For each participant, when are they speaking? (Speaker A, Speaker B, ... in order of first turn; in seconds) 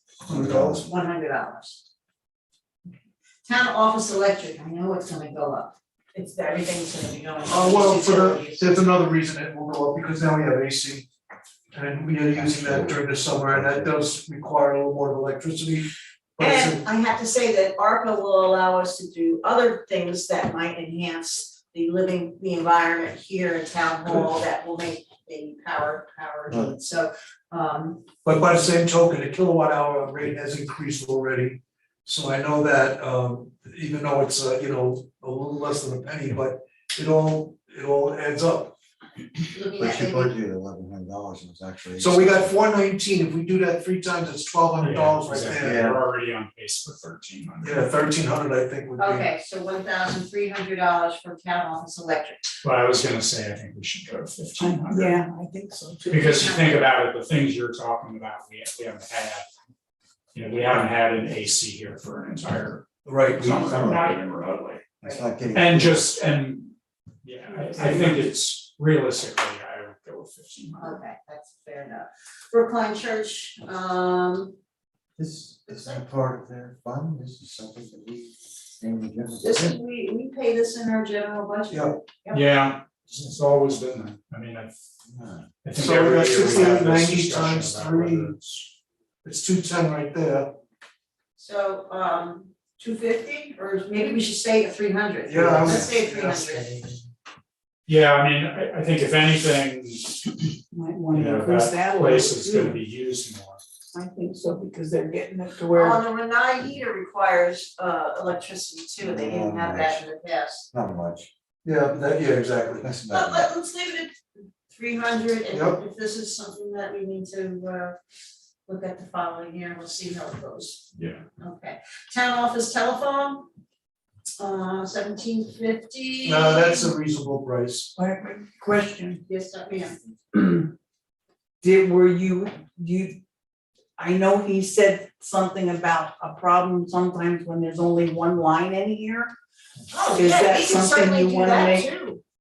Speaker A: 0.3-0.8, 12.3-13.9, 39.8-42.6, 45.6-46.0, 63.4-64.1, 65.0-66.1, 75.2-79.7, 85.0-85.5, 109.0-110.0, 110.7-111.3, 112.8-113.5
Speaker B: 0.3-0.7, 7.5-11.1, 11.7-16.8, 28.2-38.8, 42.0-45.9, 47.6-49.3, 63.0-63.7, 81.7-82.0, 85.8-88.3, 89.2-90.5, 95.3-96.7, 111.6-112.9, 115.5-115.8, 126.2-127.9
Speaker C: 0.6-1.8, 3.5-8.8, 16.4-28.0, 39.5-40.3, 49.0-52.5, 56.1-56.8, 70.8-74.5, 75.7-76.0, 79.4-82.4, 91.3-96.8, 105.7-110.7, 113.1-114.1, 114.7-118.0, 118.7-120.8, 121.4-123.5, 124.4-126.9, 129.2-129.9, 139.9-142.2
Speaker D: 44.8-47.9, 52.6-55.1, 56.1-59.5, 60.3-64.8, 65.5-71.0, 82.3-84.7, 85.6-88.7, 97.9-100.5, 101.1-103.6, 120.9-121.2
Speaker E: 54.6-56.7, 100.7-102.8, 103.9-106.0, 128.0-129.2, 130.3-130.7, 131.6-133.2, 134.0-139.3, 140.1-141.9